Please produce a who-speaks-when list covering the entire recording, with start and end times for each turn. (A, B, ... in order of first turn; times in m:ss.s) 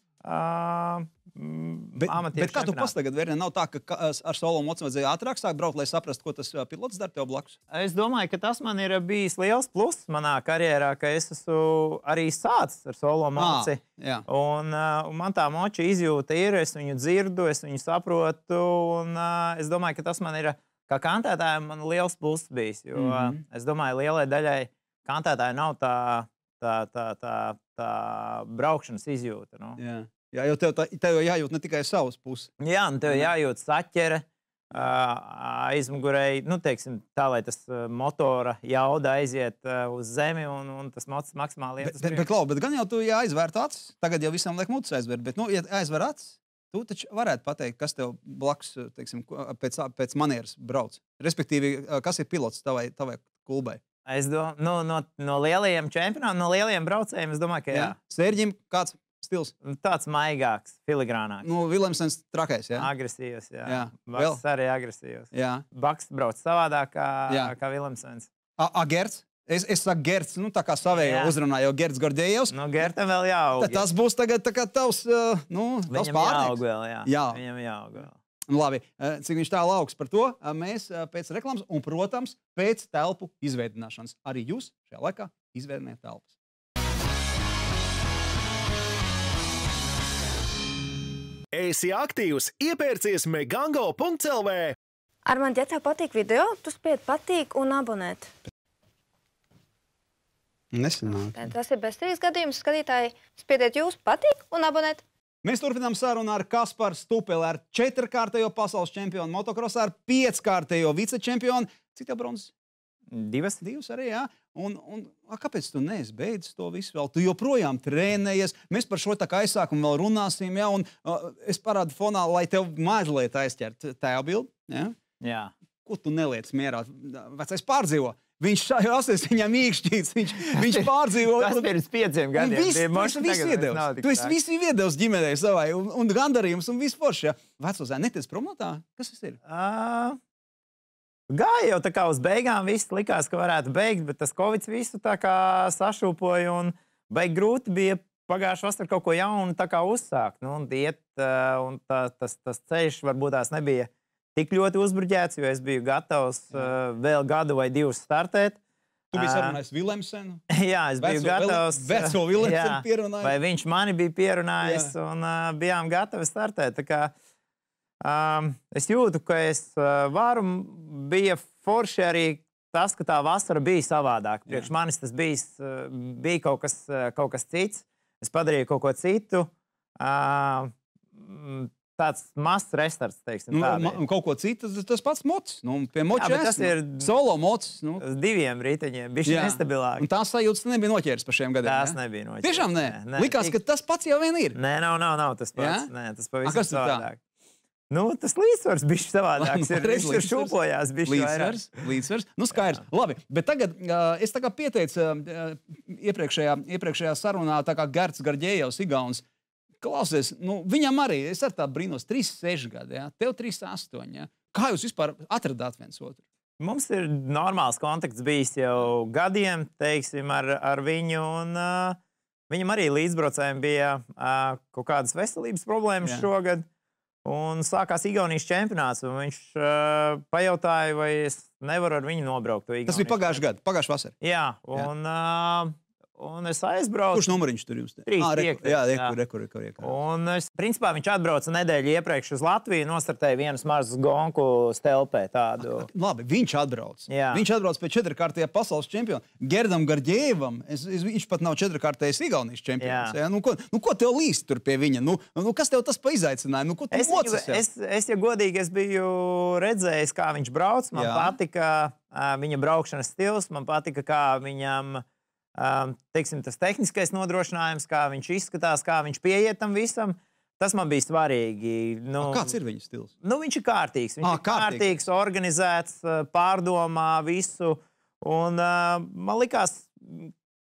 0:00.2-0:02.9 A
0:02.0-0:07.6 B
0:07.7-0:29.8 A
0:13.4-0:14.2 B
0:23.0-0:23.4 B
0:29.8-0:32.5 B
0:32.6-0:42.3 A
0:41.8-0:53.8 B
0:54.1-0:58.0 A
0:57.7-0:59.5 B
0:59.6-1:01.5 A
1:01.4-1:02.9 B
1:02.8-1:08.3 A
1:03.7-1:04.4 B
1:05.3-1:05.6 B
1:08.6-1:12.9 B
1:10.9-1:11.3 A
1:12.5-1:13.9 A
1:13.6-1:17.4 B
1:15.9-1:18.2 A
1:18.5-1:26.3 B
1:31.5-1:34.8 C
1:35.3-1:38.3 D
1:40.7-1:41.4 B
1:41.3-1:45.0 D
1:45.4-1:52.5 B
1:53.1-1:53.6 A
1:53.6-2:05.0 B
2:05.2-2:05.5 A
2:05.9-2:11.7 B
2:10.5-2:14.4 A
2:12.4-2:19.4 B
2:19.4-2:20.2 A
2:21.3-2:38.6 A
2:39.1-2:43.4 B
2:39.1-2:39.6 A
2:40.5-2:47.1 A
2:44.6-2:44.9 B
2:48.0-2:59.5 A
3:00.0-3:04.0 A
3:03.5-3:08.0 B
3:06.1-3:07.1 A
3:08.0-3:10.1 A
3:09.2-3:14.6 B
3:11.6-3:13.6 A
3:14.6-3:17.2 A
3:15.6-3:15.9 B
3:16.4-3:17.1 B
3:17.9-3:21.7 A
3:19.4-3:20.5 B
3:21.1-3:29.2 B
3:29.8-3:36.2 B
3:36.6-3:46.6 A
3:47.2-3:53.4 A
3:52.9-3:54.1 B
3:54.2-3:57.3 A
3:57.1-3:59.9 B
3:58.1-3:59.2 A
3:59.8-4:05.9 A
4:05.6-4:17.6 B
4:07.1-4:07.4 A
4:12.8-4:13.2 A
4:16.9-4:25.0 A
4:20.9-4:21.4 B
4:25.6-4:32.6 A
4:32.2-4:33.1 B
4:33.2-4:40.3 A
4:34.2-4:35.0 B